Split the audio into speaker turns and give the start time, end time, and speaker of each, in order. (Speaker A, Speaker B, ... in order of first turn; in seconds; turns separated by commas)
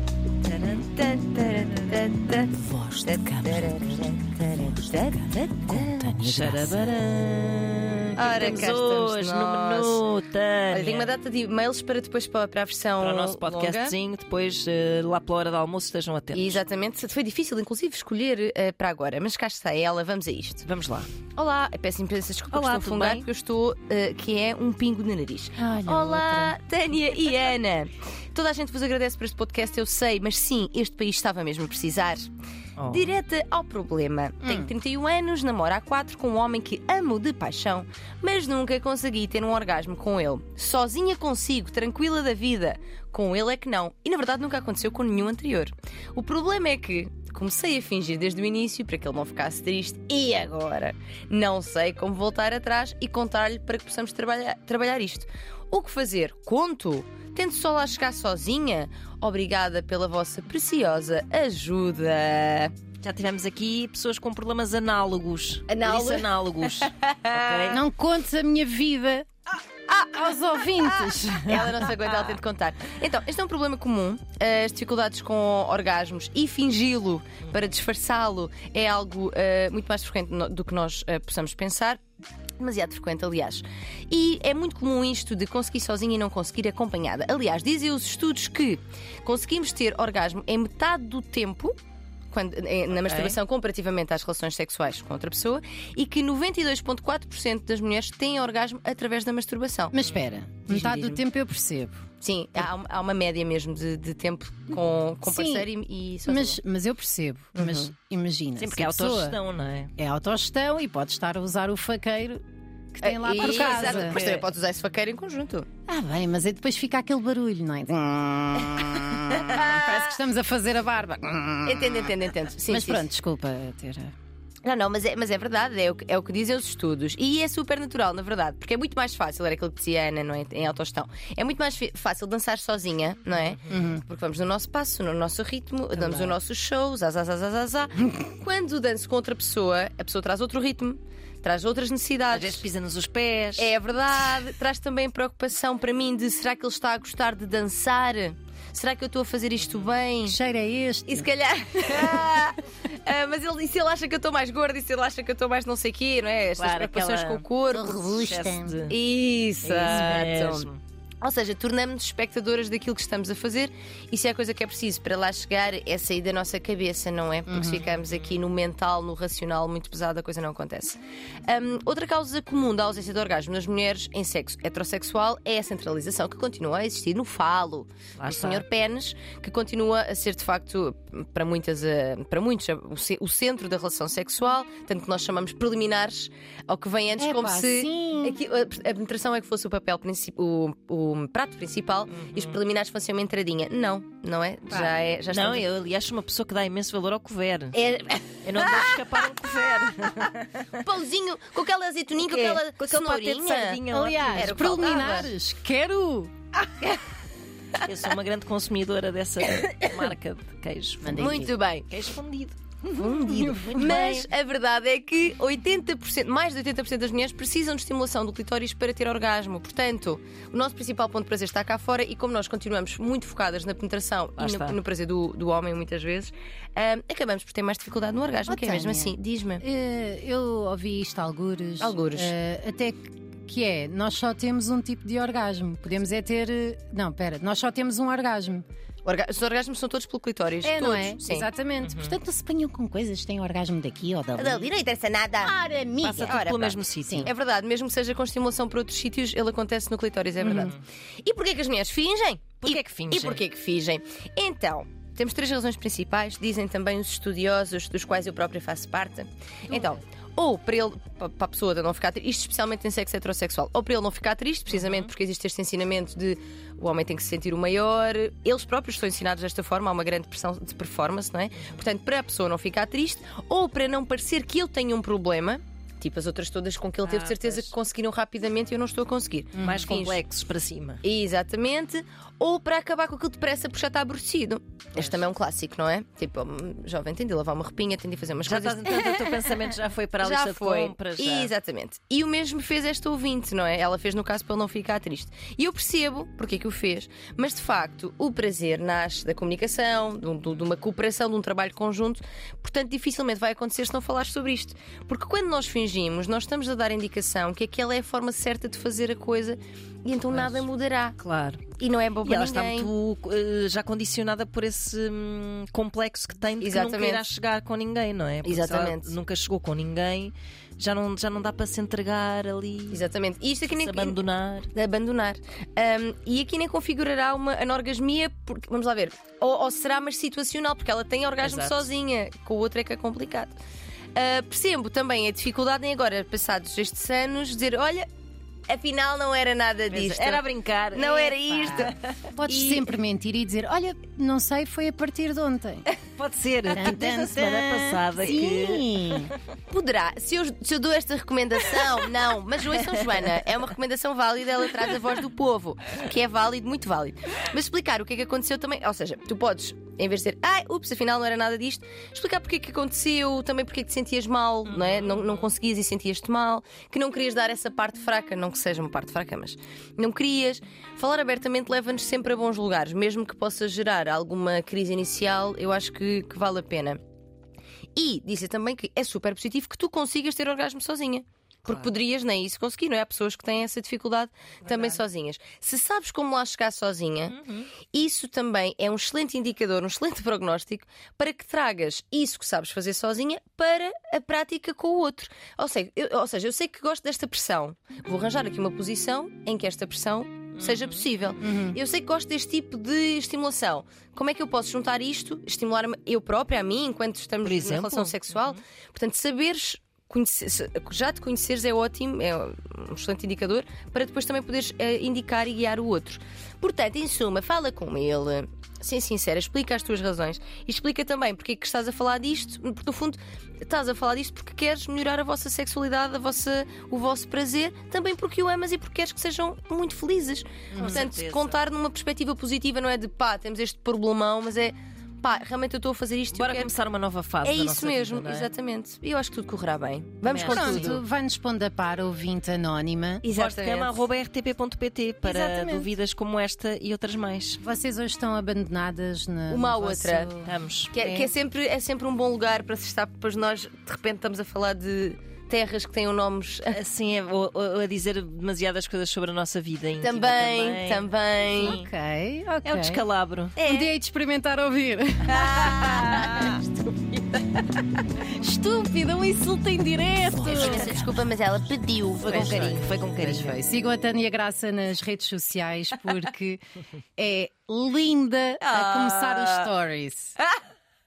Speaker A: 0.4-0.9, Speaker B: 0.8-6.1, Speaker C: 2.6-3.7, Speaker C: 5.8-6.8, Speaker A: 6.1-11.1, Speaker B: 8.2-10.0, Speaker B: 10.7-13.9, Speaker A: 13.0-16.6, Speaker B: 16.3-20.6, Speaker A: 20.6-21.1, Speaker B: 21.3-32.3, Speaker A: 22.5-23.3, Speaker C: 25.6-26.5, Speaker A: 32.8-33.1, Speaker B: 32.9-62.7, Speaker C: 34.4-34.7, Speaker A: 63.0-67.8, Speaker B: 65.7-66.3, Speaker B: 66.8-67.8, Speaker C: 67.7-69.3, Speaker B: 69.9-82.0, Speaker C: 70.1-71.9, Speaker B: 82.6-91.7, Speaker B: 92.3-99.9, Speaker A: 93.0-93.4, Speaker C: 99.9-102.0, Speaker B: 100.7-101.2, Speaker B: 102.2-106.6, Speaker C: 105.2-105.7, Speaker C: 106.2-109.4, Speaker B: 107.5-107.9, Speaker A: 108.6-109.9, Speaker C: 110.0-114.2, Speaker B: 113.0-115.7, Speaker A: 113.4-114.5, Speaker C: 115.9-122.1, Speaker B: 119.4-120.2, Speaker B: 121.6-123.1, Speaker C: 122.7-124.1, Speaker B: 124.6-142.6, Speaker A: 133.5-133.8, Speaker C: 133.7-134.0, Speaker A: 135.9-136.3, Speaker A: 142.3-143.7, Speaker B: 143.6-150.4, Speaker C: 150.2-151.3, Speaker B: 151.1-158.3, Speaker A: 156.6-157.4, Speaker C: 157.7-158.8, Speaker A: 158.1-158.9, Speaker B: 158.9-160.7, Speaker A: 159.6-160.8, Speaker B: 161.2-195.7, Speaker C: 167.5-167.8, Speaker A: 167.6-168.3, Speaker A: 178.2-178.6, Speaker C: 187.2-188.4, Speaker A: 192.1-192.6, Speaker A: 195.3-197.8, Speaker B: 197.7-199.0, Speaker A: 198.4-200.8, Speaker B: 200.8-205.3, Speaker A: 202.2-205.3, Speaker C: 203.9-206.3, Speaker A: 207.8-212.6, Speaker C: 211.0-211.5, Speaker B: 211.1-211.9, Speaker C: 212.9-214.1, Speaker B: 212.9-229.6, Speaker A: 213.5-214.3, Speaker A: 224.4-224.8, Speaker C: 228.4-238.6, Speaker B: 231.8-232.3, Speaker B: 239.0-241.5, Speaker C: 240.6-244.7, Speaker A: 241.8-242.2, Speaker B: 244.3-245.5, Speaker C: 245.4-246.4, Speaker A: 246.0-247.3, Speaker B: 246.1-280.2, Speaker C: 247.0-247.3, Speaker A: 250.4-250.8, Speaker A: 252.6-253.4, Speaker A: 264.7-265.1, Speaker A: 271.6-271.8, Speaker A: 277.0-277.7, Speaker C: 279.6-279.8, Speaker A: 279.6-281.0, Speaker B: 281.0-289.2, Speaker A: 284.9-285.2, Speaker A: 288.4-291.5, Speaker B: 290.2-311.2, Speaker A: 310.3-310.7, Speaker A: 311.2-311.6, Speaker B: 311.8-312.9, Speaker A: 312.2-323.0, Speaker B: 316.6-317.2, Speaker B: 318.4-319.1, Speaker B: 322.9-324.2, Speaker A: 323.7-324.7, Speaker B: 324.7-333.5, Speaker A: 331.4-331.9, Speaker B: 334.1-338.1, Speaker B: 338.7-341.9, Speaker A: 339.9-342.1, Speaker C: 341.4-345.9, Speaker B: 342.4-342.9, Speaker A: 345.9-349.3, Speaker C: 346.7-349.3, Speaker B: 349.7-377.0, Speaker A: 352.8-353.3, Speaker A: 364.7-365.5, Speaker B: 377.9-387.3, Speaker A: 381.6-381.9, Speaker A: 384.6-385.0, Speaker A: 387.3-387.7, Speaker B: 387.9-436.7, Speaker A: 400.6-401.1, Speaker C: 401.4-401.8, Speaker A: 407.4-408.6, Speaker A: 430.7-431.6, Speaker A: 436.3-438.5, Speaker B: 437.4-441.0, Speaker A: 440.2-441.0, Speaker C: 440.5-443.2, Speaker B: 443.2-443.9, Speaker A: 443.3-447.6, Speaker C: 445.2-445.9, Speaker C: 447.6-450.5, Speaker B: 449.5-450.3, Speaker A: 450.4-451.3, Speaker B: 450.9-456.8, Speaker A: 456.7-461.1, Speaker B: 460.0-461.9, Speaker C: 461.5-463.0, Speaker A: 462.6-463.6, Speaker B: 463.6-463.9, Speaker C: 463.6-465.5, Speaker B: 465.3-467.6, Speaker C: 468.3-471.0, Speaker B: 470.4-472.9, Speaker A: 470.5-470.9, Speaker A: 472.2-473.6, Speaker C: 472.3-476.6, Speaker C: 477.2-480.4, Speaker B: 478.6-479.7